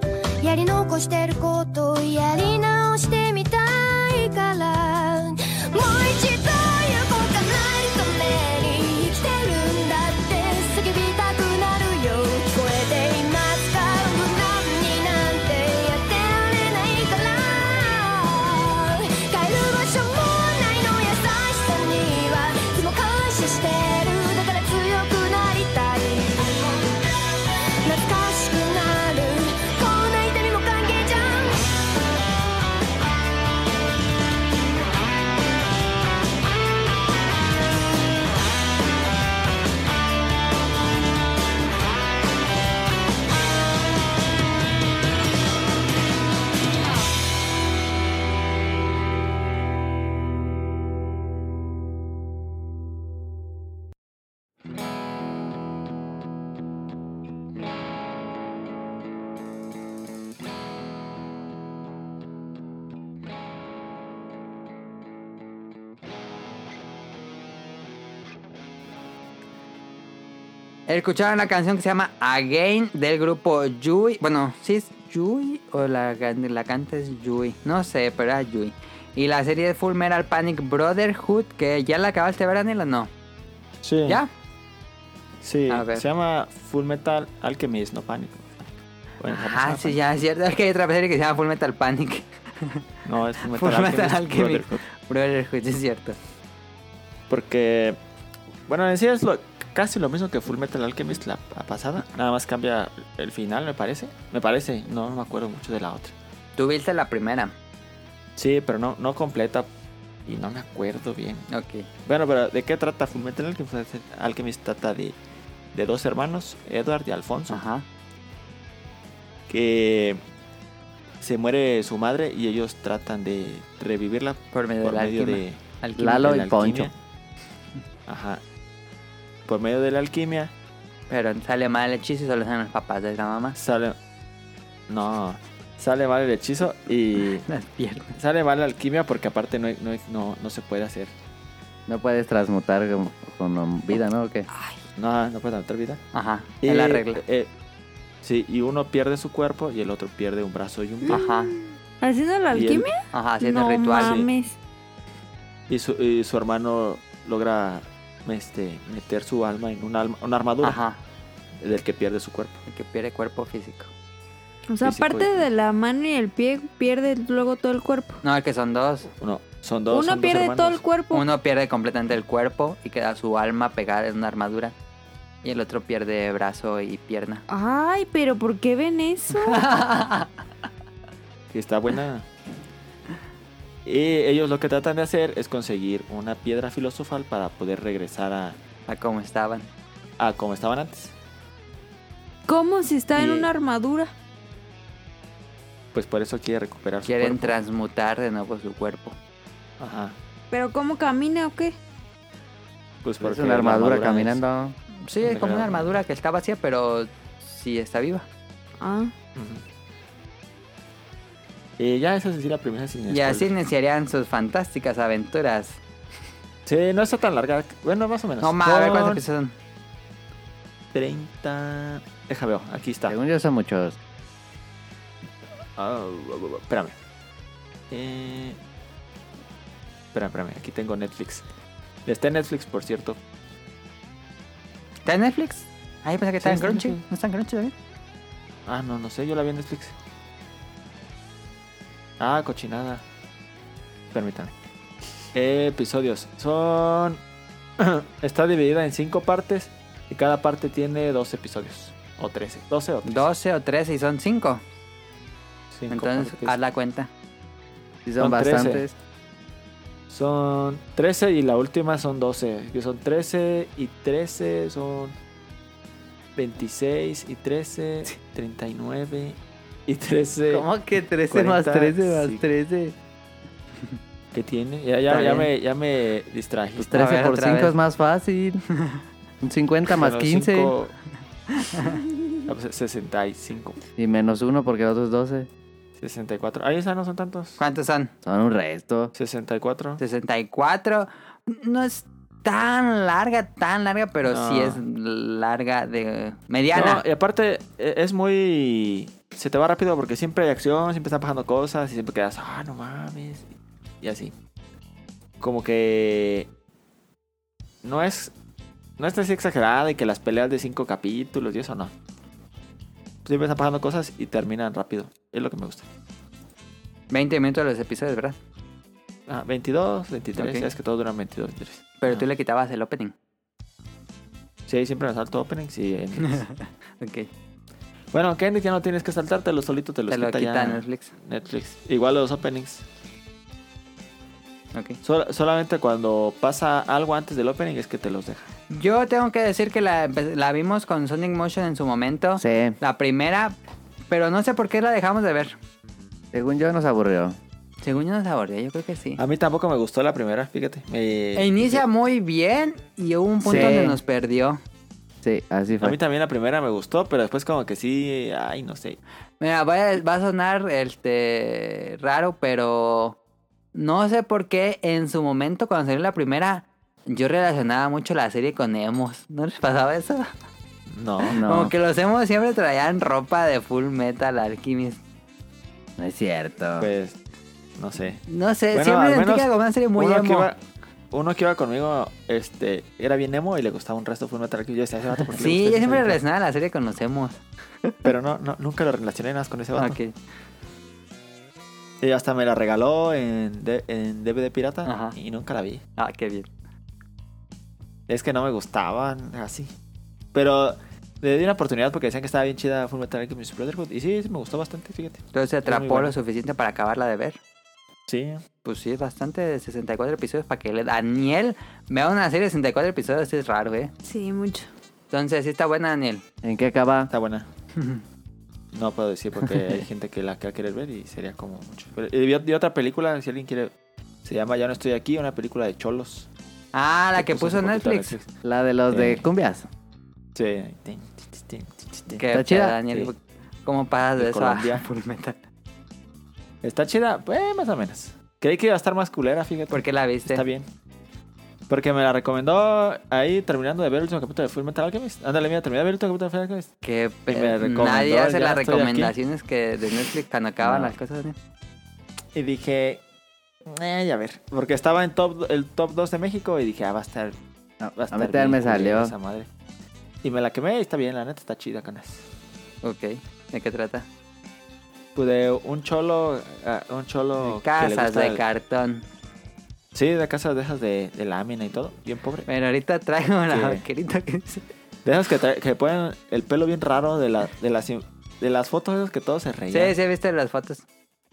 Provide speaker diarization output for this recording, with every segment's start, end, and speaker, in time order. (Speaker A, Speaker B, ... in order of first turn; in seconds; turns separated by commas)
Speaker A: 0.4-26.8, Speaker A: 27.8-31.7, Speaker B: 70.9-83.1, Speaker C: 83.8-84.2, Speaker C: 85.4-88.5, Speaker B: 85.7-86.0, Speaker C: 89.2-90.0, Speaker B: 89.3-92.8, Speaker C: 93.0-94.8, Speaker B: 93.5-96.2, Speaker C: 97.3-98.0, Speaker C: 98.7-106.1, Speaker B: 106.6-107.5, Speaker C: 108.4-109.7, Speaker C: 110.3-111.5, Speaker B: 111.5-111.9, Speaker C: 112.0-115.2, Speaker C: 115.7-117.6, Speaker B: 117.5-117.8, Speaker C: 119.5-120.2, Speaker C: 121.2-127.0, Speaker B: 124.5-126.4, Speaker D: 126.0-126.9, Speaker C: 128.1-128.4, Speaker C: 129.5-130.5, Speaker B: 131.1-133.6, Speaker C: 133.6-134.0, Speaker C: 134.9-137.4, Speaker B: 137.4-138.2, Speaker C: 138.2-141.1, Speaker D: 141.9-144.5, Speaker E: 144.5-144.8, Speaker C: 145.0-146.0, Speaker B: 146.1-147.2, Speaker C: 146.6-147.5, Speaker C: 148.2-151.2, Speaker E: 151.0-154.6, Speaker B: 151.1-151.5, Speaker C: 152.5-152.9, Speaker B: 153.1-154.2, Speaker C: 153.9-154.3, Speaker C: 155.7-160.8, Speaker B: 160.6-161.0, Speaker C: 161.6-162.6, Speaker B: 162.7-163.9, Speaker E: 164.7-168.2, Speaker C: 164.8-165.5, Speaker B: 168.2-169.1, Speaker C: 169.2-170.8, Speaker E: 169.9-171.3, Speaker B: 171.1-174.7, Speaker B: 175.4-177.4, Speaker E: 177.5-179.7, Speaker B: 179.4-180.3, Speaker C: 181.5-182.2, Speaker C: 183.8-188.6, Speaker B: 188.9-189.7, Speaker C: 190.2-191.1, Speaker E: 192.5-194.1, Speaker C: 193.1-193.5, Speaker C: 195.9-197.6, Speaker B: 197.1-199.2, Speaker C: 199.8-200.2, Speaker E: 200.5-201.8, Speaker C: 203.0-204.4, Speaker D: 203.2-204.8, Speaker B: 205.0-208.2, Speaker C: 205.2-206.0, Speaker E: 208.8-209.1, Speaker C: 209.4-209.6, Speaker C: 211.8-213.5, Speaker B: 213.1-215.8, Speaker C: 216.7-219.2, Speaker B: 218.4-219.5, Speaker C: 220.9-223.2, Speaker D: 223.1-224.0, Speaker C: 225.8-226.9, Speaker C: 227.9-228.6, Speaker C: 230.1-231.4, Speaker C: 232.1-233.2, Speaker B: 235.1-237.7, Speaker C: 236.4-237.0, Speaker C: 238.7-239.9, Speaker C: 242.2-243.0, Speaker C: 244.1-244.5, Speaker C: 245.3-247.2, Speaker C: 247.8-253.3, Speaker B: 253.1-254.6, Speaker C: 255.7-256.6, Speaker B: 255.9-257.1, Speaker D: 258.1-258.9, Speaker C: 258.2-258.8, Speaker C: 260.1-265.1, Speaker C: 266.4-270.7, Speaker D: 270.5-272.9, Speaker C: 271.3-272.4, Speaker C: 274.3-277.0, Speaker B: 275.1-275.5, Speaker D: 276.8-278.6, Speaker B: 276.9-277.8, Speaker D: 279.4-280.7, Speaker C: 279.9-280.9, Speaker B: 281.6-282.0, Speaker C: 282.5-283.8, Speaker D: 284.0-285.5, Speaker C: 286.0-287.6, Speaker B: 287.6-288.1, Speaker D: 288.2-289.1, Speaker C: 289.1-290.0, Speaker B: 290.0-297.0, Speaker C: 294.3-294.8, Speaker C: 296.7-304.4, Speaker C: 305.4-306.5, Speaker C: 307.8-308.3, Speaker C: 309.0-311.9, Speaker C: 313.2-315.9, Speaker B: 317.1-318.4, Speaker C: 319.3-322.3, Speaker B: 320.4-320.7, Speaker B: 322.0-323.1, Speaker C: 324.7-326.4, Speaker B: 326.3-327.3, Speaker C: 328.1-332.8, Speaker B: 330.1-331.1, Speaker B: 334.7-335.0, Speaker C: 335.0-338.5, Speaker B: 338.7-343.6, Speaker D: 342.4-342.8, Speaker B: 344.1-345.6, Speaker D: 346.3-347.4, Speaker B: 347.8-349.2, Speaker C: 349.2-351.8, Speaker B: 351.4-354.6, Speaker D: 353.4-354.0, Speaker D: 355.2-356.0, Speaker C: 355.8-359.0, Speaker B: 359.4-363.2, Speaker B: 363.7-370.3, Speaker C: 370.9-371.4, Speaker D: 371.3-371.7, Speaker B: 371.3-375.0, Speaker D: 376.0-376.9, Speaker C: 376.8-377.2, Speaker C: 377.8-378.2, Speaker B: 378.3-380.5, Speaker C: 378.7-386.2, Speaker B: 385.4-388.1, Speaker C: 388.1-390.0, Speaker B: 389.8-390.1, Speaker C: 392.0-395.8, Speaker B: 394.9-395.2, Speaker B: 396.0-396.5, Speaker C: 398.1-399.7, Speaker C: 400.3-406.1, Speaker B: 405.3-407.4, Speaker C: 408.1-408.4, Speaker B: 408.6-413.9, Speaker E: 414.0-414.7, Speaker B: 415.1-416.2, Speaker D: 416.4-417.1, Speaker C: 417.1-417.5, Speaker B: 417.8-418.0, Speaker C: 418.7-423.7, Speaker B: 419.4-419.8, Speaker C: 424.2-426.3, Speaker B: 426.7-428.1, Speaker C: 427.1-428.3, Speaker D: 428.4-429.7, Speaker C: 428.9-429.2, Speaker C: 430.4-432.2, Speaker B: 432.2-435.4, Speaker D: 432.3-432.8, Speaker C: 434.2-434.9, Speaker C: 436.6-440.7, Speaker B: 439.7-440.4, Speaker C: 441.7-446.7, Speaker B: 446.8-451.4, Speaker C: 447.3-449.1, Speaker D: 450.6-450.9, Speaker C: 452.3-453.0, Speaker C: 453.7-457.4, Speaker D: 457.8-459.1, Speaker C: 457.9-459.5, Speaker C: 460.2-462.3, Speaker B: 462.8-464.1, Speaker C: 465.1-468.4, Speaker B: 467.4-469.0, Speaker C: 469.9-472.5, Speaker B: 472.5-474.6, Speaker C: 473.5-473.8, Speaker C: 475.1-480.0, Speaker B: 479.7-480.8